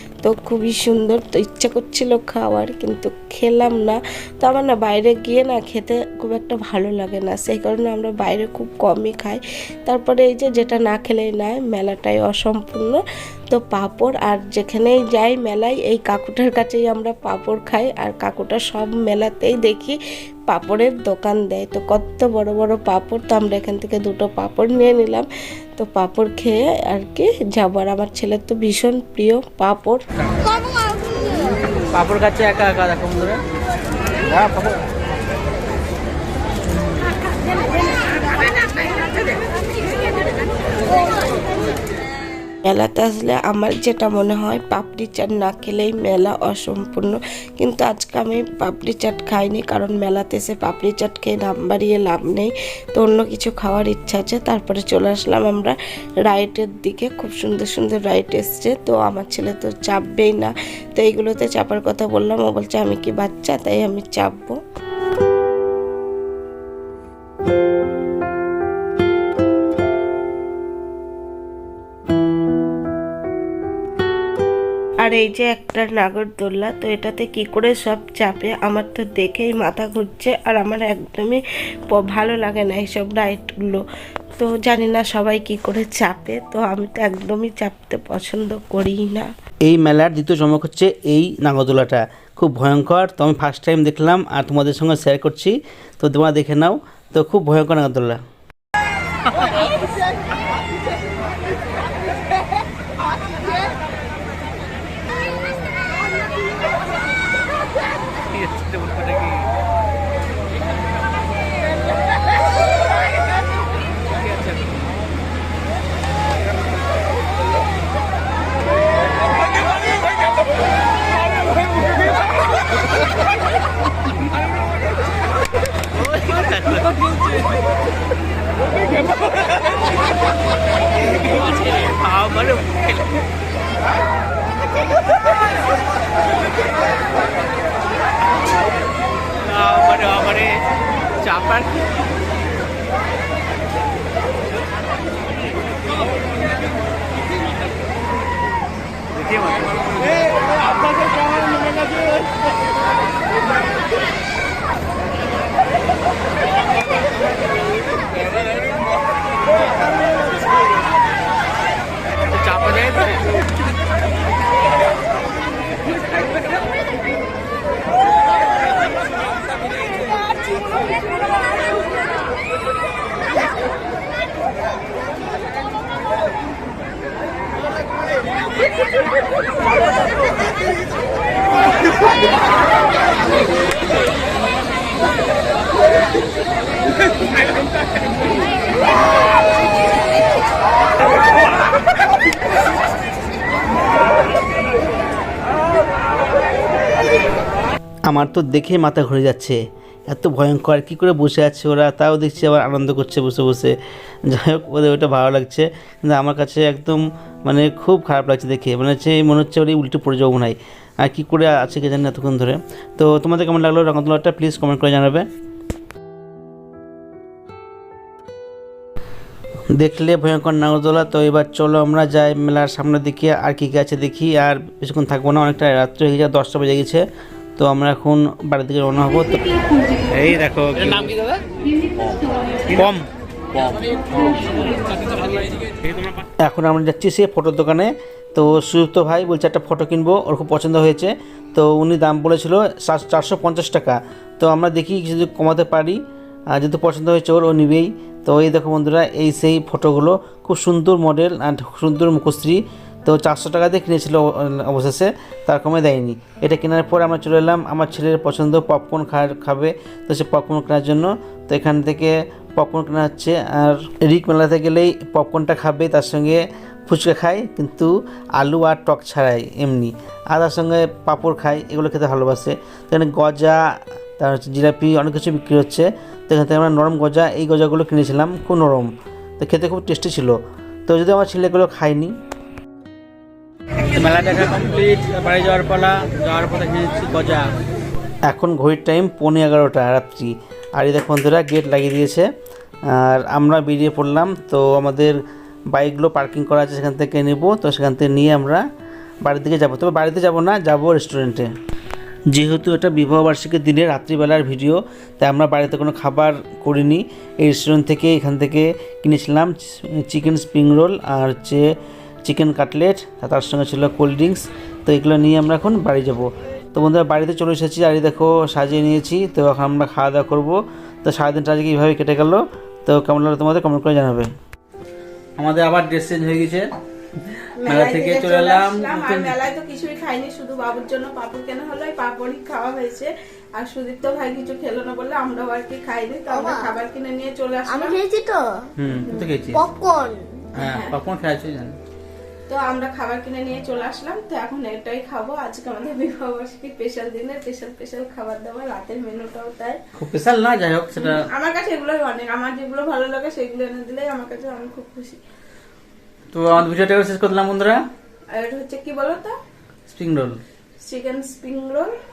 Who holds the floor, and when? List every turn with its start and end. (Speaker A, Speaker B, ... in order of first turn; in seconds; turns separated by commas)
Speaker A: 0.2-20.0, Speaker A: 20.5-30.0, Speaker B: 31.9-33.4, Speaker A: 42.6-64.6, Speaker A: 75.0-83.8, Speaker A: 84.4-89.3, Speaker B: 89.6-98.2, Speaker B: 108.4-109.3, Speaker B: 126.0-127.0, Speaker B: 131.7-133.0, Speaker B: 139.4-140.6, Speaker B: 141.2-141.8, Speaker B: 149.3-149.6, Speaker B: 162.5-162.9, Speaker B: 198.1-203.8, Speaker B: 204.3-215.3, Speaker B: 219.8-227.0, Speaker B: 227.6-231.1, Speaker B: 232.7-233.0, Speaker B: 234.1-234.5, Speaker B: 236.4-246.0, Speaker B: 246.5-273.6, Speaker B: 274.2-282.1, Speaker B: 283.9-287.5, Speaker B: 288.3-292.2, Speaker B: 292.9-295.2, Speaker B: 295.7-298.6, Speaker B: 299.2-301.5, Speaker B: 302.3-311.6, Speaker B: 312.2-324.3, Speaker B: 325.4-326.7, Speaker B: 327.4-329.4, Speaker C: 327.6-338.0, Speaker D: 336.3-336.7, Speaker D: 337.7-338.4, Speaker B: 338.8-339.6, Speaker D: 339.5-340.2, Speaker B: 340.6-341.8, Speaker C: 340.6-340.9, Speaker C: 342.5-349.8, Speaker B: 349.9-351.3, Speaker C: 351.0-355.2, Speaker B: 356.3-357.8, Speaker C: 358.3-359.3, Speaker B: 359.9-360.4, Speaker C: 360.8-361.9